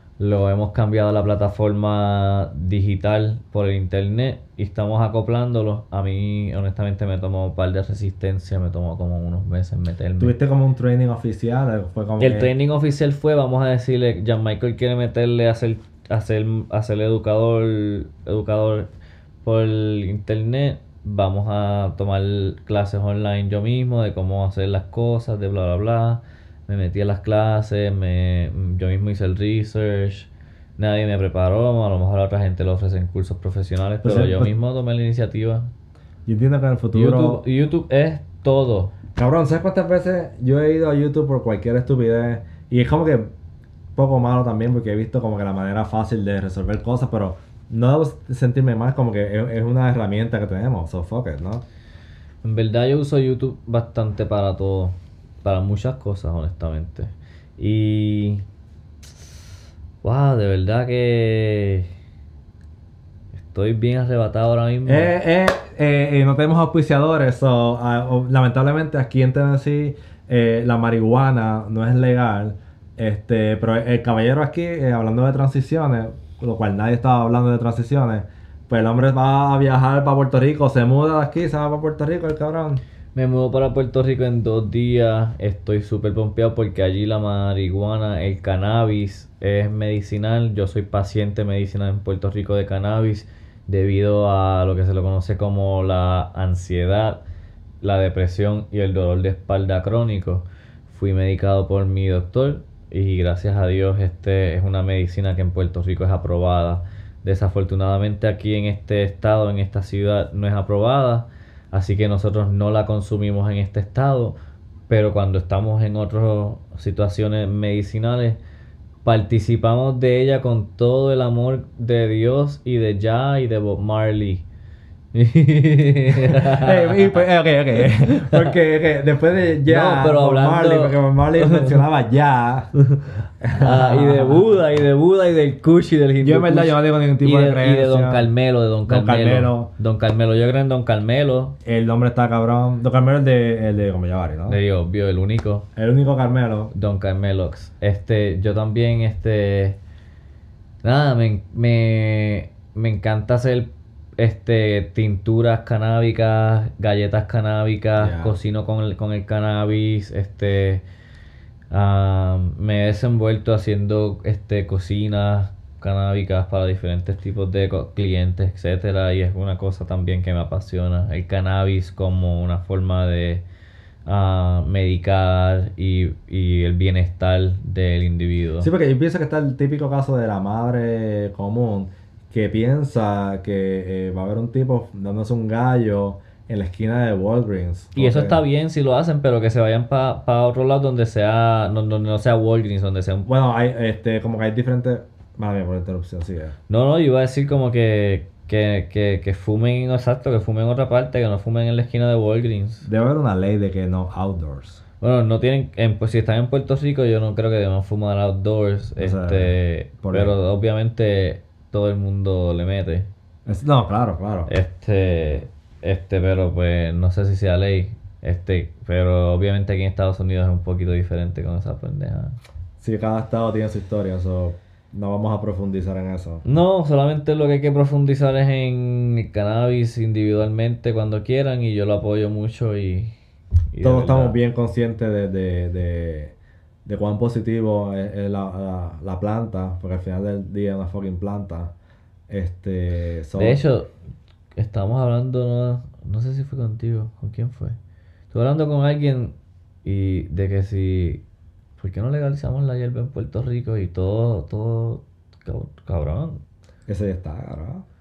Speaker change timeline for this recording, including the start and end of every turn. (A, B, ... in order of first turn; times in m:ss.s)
0:00.2-0:10.4 A
0:10.2-0:12.5 B
0:12.2-0:18.9 A
0:19.4-0:35.7 A
0:34.0-0:34.5 B
0:36.3-0:37.4 B
0:36.9-0:38.9 A
0:39.2-0:43.3 B
0:44.0-0:51.6 B
0:52.4-0:58.4 A
1:00.0-1:01.9 A
1:03.4-1:05.1 A
1:04.9-1:22.8 B
1:23.2-1:37.2 A
1:37.8-1:54.4 A
1:54.9-1:58.4 A
1:59.0-2:04.4 A
2:05.1-2:07.2 A
2:06.2-2:12.8 B
2:07.8-2:08.6 A
2:09.6-2:11.9 A
2:13.4-2:14.5 B
2:13.6-2:21.6 A
2:16.2-2:18.3 B
2:18.9-2:19.7 B
2:21.6-2:24.6 B
2:24.5-2:25.7 A
2:25.8-2:26.7 B
2:26.7-2:29.8 A
2:30.8-2:40.8 A
2:38.0-2:38.4 B
2:41.7-2:53.4 A
2:54.1-2:58.7 A
2:58.6-3:08.4 B
3:08.0-3:13.3 A
3:13.2-3:16.6 B
3:16.7-3:22.9 A
3:22.8-3:24.8 B
3:25.0-3:33.1 A
3:29.0-3:30.4 B
3:33.5-3:34.5 B
3:34.5-3:42.4 A
3:42.8-3:46.4 B
3:46.4-3:53.2 A
3:53.7-3:54.4 A
3:53.8-4:01.7 B
4:02.3-4:03.6 B
4:03.4-4:03.9 A
4:04.6-4:07.8 A
4:08.3-4:11.2 A
4:11.8-4:16.4 A
4:16.9-4:17.8 B